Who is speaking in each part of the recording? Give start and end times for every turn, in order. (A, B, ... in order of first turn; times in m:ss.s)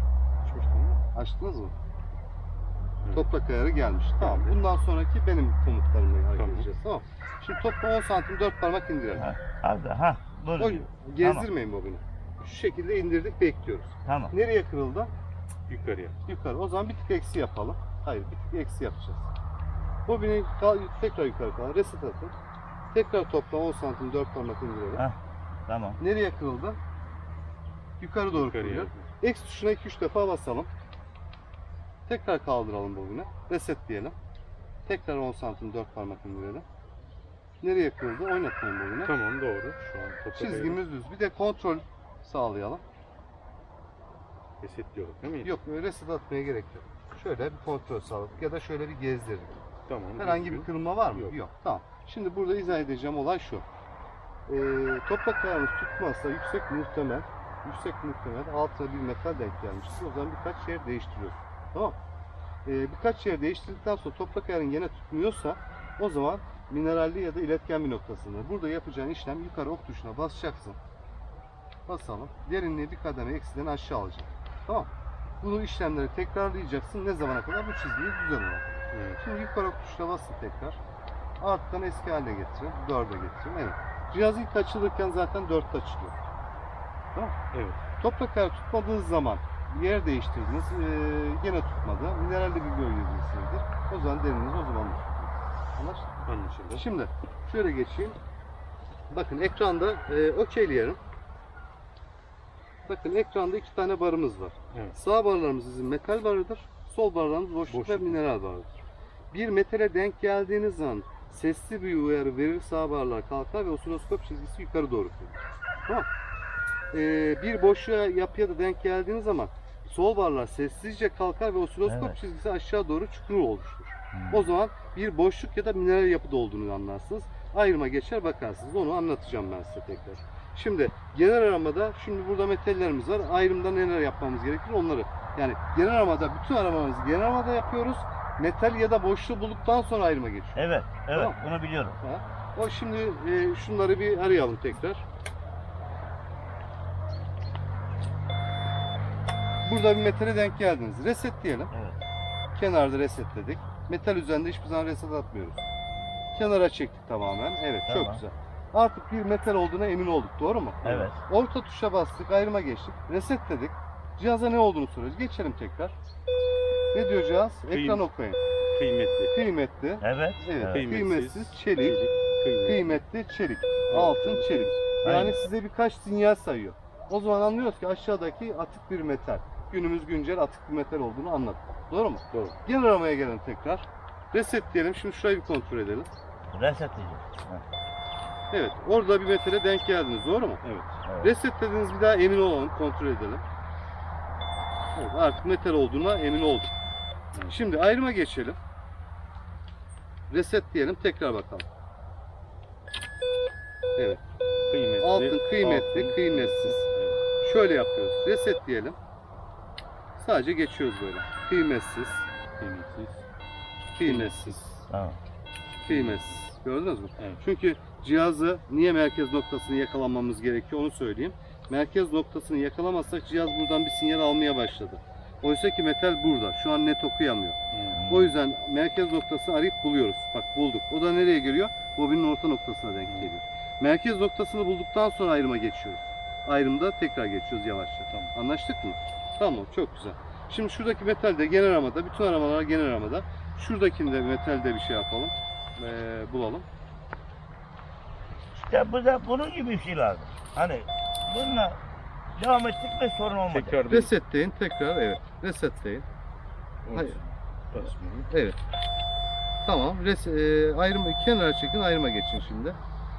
0:00.4-0:01.0 A
0:01.1-0:01.7 B
0:03.1-0:09.3 B
0:04.2-0:04.5 A
0:06.4-0:06.7 A
0:09.2-0:11.5 C
0:10.6-0:15.1 B
0:14.0-0:14.3 C
0:15.7-0:16.2 A
0:16.3-0:19.3 B
0:20.1-0:22.3 B
0:22.9-0:25.1 B
0:25.0-0:26.0 C
0:26.0-0:26.8 B
0:28.0-0:30.7 B
0:28.3-0:29.0 A
0:32.1-0:34.2 B
0:34.9-0:36.6 B
0:37.6-0:39.1 B
0:39.0-0:40.8 A
0:40.4-0:42.8 B
0:44.6-0:45.5 A
0:45.4-0:49.6 B
0:49.9-0:51.4 A
0:50.2-0:53.6 B
0:54.5-1:02.0 B
1:02.6-1:10.8 B
1:11.9-1:14.9 B
1:15.4-1:20.8 B
1:18.9-1:19.2 A
1:21.4-1:26.2 B
1:27.5-1:27.8 A
1:28.0-1:36.1 B
1:36.3-1:36.8 A
1:36.7-1:38.2 B
1:39.1-1:41.0 B
1:42.9-1:48.8 B
1:47.7-1:48.2 A
1:49.3-1:56.1 B
1:56.9-2:21.4 B
2:01.9-2:02.2 C
2:04.1-2:04.5 C
2:20.6-2:22.0 C
2:22.0-2:25.0 B
2:29.6-2:31.7 B
2:31.7-2:32.0 C
2:32.6-2:35.6 B
2:36.3-2:46.0 B
2:37.9-2:38.2 C
2:40.8-2:41.2 C
2:46.9-2:48.4 B
2:47.7-2:48.0 A
2:48.7-2:49.3 A
2:49.3-2:52.0 B
2:50.0-2:50.9 C
2:50.6-2:53.0 A
2:52.6-3:06.1 B
2:53.9-2:55.3 A
2:55.0-2:55.4 C
3:02.3-3:02.6 A
3:06.5-3:07.6 C
3:08.5-3:13.4 B
3:11.0-3:11.3 C
3:14.9-3:16.7 B
3:17.5-3:18.6 B
3:20.3-3:21.7 B
3:24.7-3:27.2 A
3:25.0-3:26.8 B
3:27.4-3:29.0 B
3:30.2-3:32.3 B
3:32.6-3:33.2 A
3:33.9-3:34.8 B
3:34.0-3:34.8 A
3:34.9-3:35.2 C
3:35.8-4:06.7 B
3:35.9-3:36.3 A
3:37.2-3:37.4 A
3:47.7-3:48.0 A
3:47.9-3:48.4 C
4:08.5-4:11.8 C
4:12.4-4:13.8 C
4:13.5-4:14.1 A
4:13.9-4:16.0 B
4:16.8-4:18.3 A
4:18.3-4:18.6 B
4:19.6-4:22.8 B